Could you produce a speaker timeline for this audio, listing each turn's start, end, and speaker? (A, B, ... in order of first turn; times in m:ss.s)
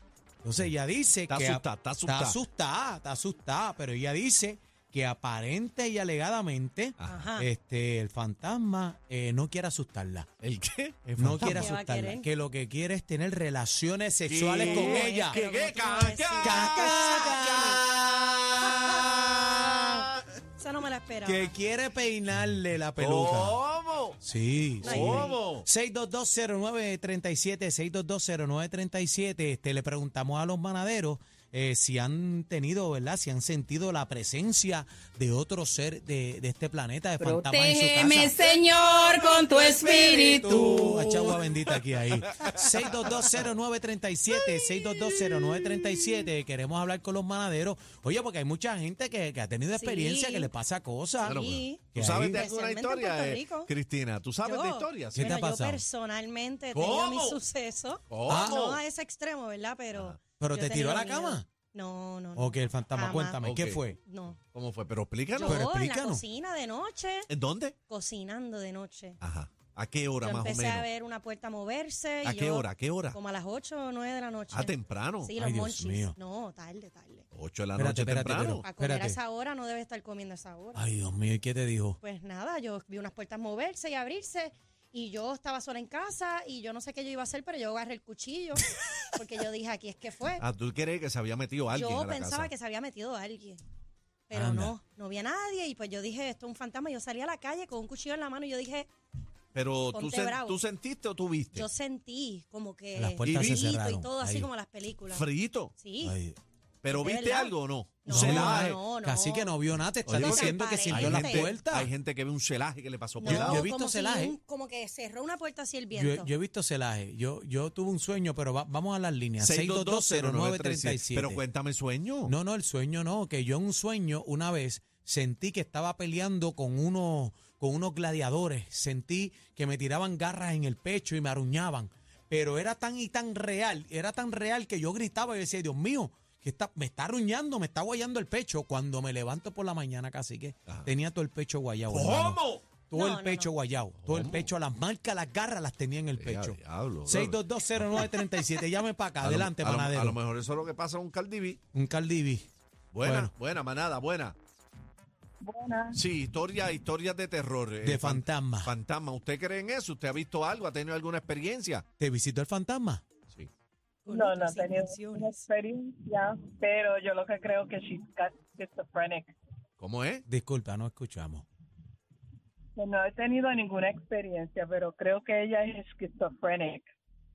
0:00.4-0:10.3 A
0:01.3-0:02.4 B
0:07.0-0:07.2 B
0:07.1-0:07.5 C
0:10.4-0:11.7 B
0:11.2-0:15.4 A
0:11.5-0:12.3 C
0:14.3-0:17.2 B
0:14.5-0:17.9 C
0:16.4-0:18.9 A
0:18.6-0:21.5 C
0:21.2-0:23.6 A
0:23.0-0:24.2 B
0:24.2-0:38.6 A
0:24.8-0:25.7 B
0:24.8-0:25.4 C
0:37.2-0:41.4 D
0:39.4-0:51.4 A
0:41.5-0:43.4 B
0:49.8-0:50.5 C
0:51.2-0:53.7 C
0:51.2-0:55.4 B
0:51.9-0:52.4 A
0:54.4-1:03.4 C
0:55.1-0:55.8 A
0:56.7-0:57.4 B
0:58.1-0:58.8 B
0:58.2-0:58.7 A
1:00.4-1:01.5 A
1:02.4-1:04.0 A
1:03.4-1:03.8 B
1:04.0-1:04.4 C
1:04.5-1:05.6 B
1:05.3-1:07.3 C
1:05.5-1:06.2 A
1:07.3-1:07.8 B
1:07.9-1:09.2 C
1:09.2-1:10.9 B
1:10.2-1:17.3 C
1:12.2-1:13.2 B
1:14.5-1:15.3 B
1:15.4-1:16.2 A
1:17.3-1:18.6 B
1:17.8-1:19.2 A
1:18.6-1:20.8 C
1:20.8-1:22.0 A
1:22.0-1:30.4 C
1:30.4-1:32.5 B
1:31.7-1:33.6 C
1:34.3-1:38.9 C
1:34.3-1:34.8 A
1:39.5-1:41.7 B
1:39.9-1:40.6 C
1:41.5-1:46.2 C
1:43.0-1:44.5 A
1:43.2-1:43.6 B
1:45.1-1:45.8 B
1:46.0-1:46.4 A
1:46.8-1:48.8 B
1:46.9-1:49.6 C
1:48.1-1:51.9 A
1:50.1-1:51.5 C
1:50.1-1:53.6 B
1:53.2-1:56.3 C
1:53.2-1:54.4 A
1:55.9-2:01.4 A
1:59.4-2:02.4 B
2:02.3-2:30.2 A
2:21.9-2:22.7 B
2:22.9-2:23.5 C
2:24.0-2:24.5 B
2:26.2-2:28.3 B
2:29.2-2:31.6 B
2:31.7-2:32.5 A
2:32.9-2:34.4 B
2:33.0-2:33.3 A
2:35.4-2:36.0 E
2:35.9-2:41.9 B
2:37.8-2:38.7 A
2:42.0-2:43.0 A
2:44.1-2:45.5 C
2:44.1-2:49.4 E
2:49.8-2:50.2 B
2:50.3-2:51.5 A
2:52.8-2:56.9 E